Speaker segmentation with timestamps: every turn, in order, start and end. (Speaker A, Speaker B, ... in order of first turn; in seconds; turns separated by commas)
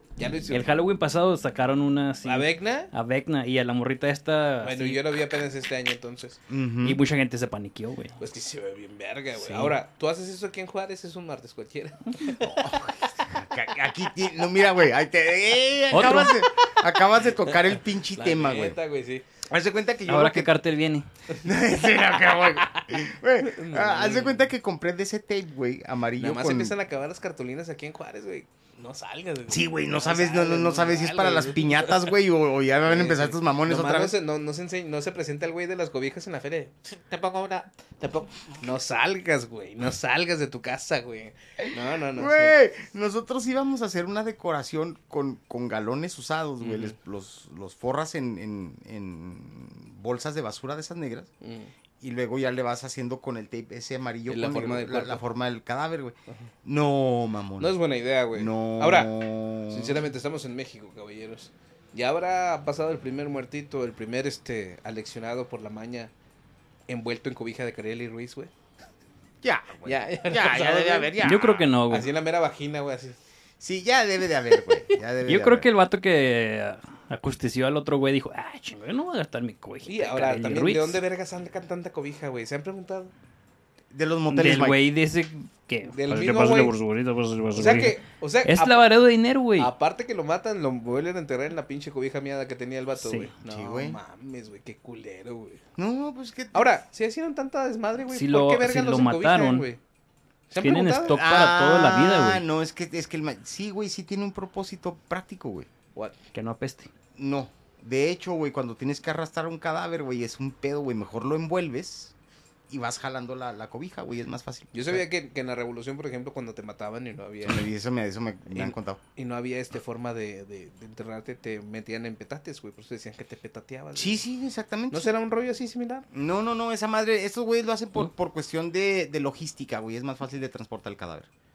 Speaker A: 0.2-0.7, Speaker B: 0.5-5.0, Speaker A: 2.2-2.9, Speaker A: 4.6-6.4, Speaker C: 6.5-7.0, Speaker B: 6.8-8.2, Speaker A: 8.2-13.3, Speaker B: 9.3-9.8, Speaker C: 12.3-18.8, Speaker B: 15.9-16.4, Speaker A: 17.4-19.2, Speaker C: 19.4-20.5, Speaker B: 20.1-21.1, Speaker A: 21.3-22.9, Speaker C: 21.4-26.8, Speaker A: 23.4-24.4, Speaker A: 26.2-32.1, Speaker C: 29.5-34.1, Speaker A: 32.9-42.5, Speaker C: 41.6-51.3, Speaker A: 46.6-47.0, Speaker A: 51.4-51.7, Speaker C: 52.0-57.8, Speaker A: 54.3-55.2, Speaker A: 57.6-59.1, Speaker C: 58.3-60.0, Speaker A: 59.7-66.1, Speaker A: 66.9-68.5, Speaker C: 69.4-71.7, Speaker A: 69.8-71.1, Speaker B: 71.2-72.1, Speaker A: 71.9-73.2, Speaker C: 73.6-75.7, Speaker A: 74.6-74.9, Speaker B: 75.3-81.0, Speaker A: 79.8-83.1, Speaker C: 83.9-84.8, Speaker B: 84.3-89.7, Speaker A: 85.9-86.8, Speaker A: 87.5-88.8, Speaker A: 89.6-95.6, Speaker B: 93.0-93.3, Speaker C: 93.4-94.0, Speaker C: 95.8-96.7, Speaker A: 96.5-99.8, Speaker B: 98.1-99.7, Speaker A: 100.5-101.2, Speaker B: 100.6-102.4, Speaker C: 101.1-105.7, Speaker B: 106.3-106.9, Speaker C: 107.2-112.1, Speaker C: 112.7-115.0, Speaker A: 114.7-117.7, Speaker C: 117.4-119.0, Speaker A: 118.5-124.2, Speaker C: 123.9-125.1, Speaker A: 124.9-126.0, Speaker C: 126.1-131.3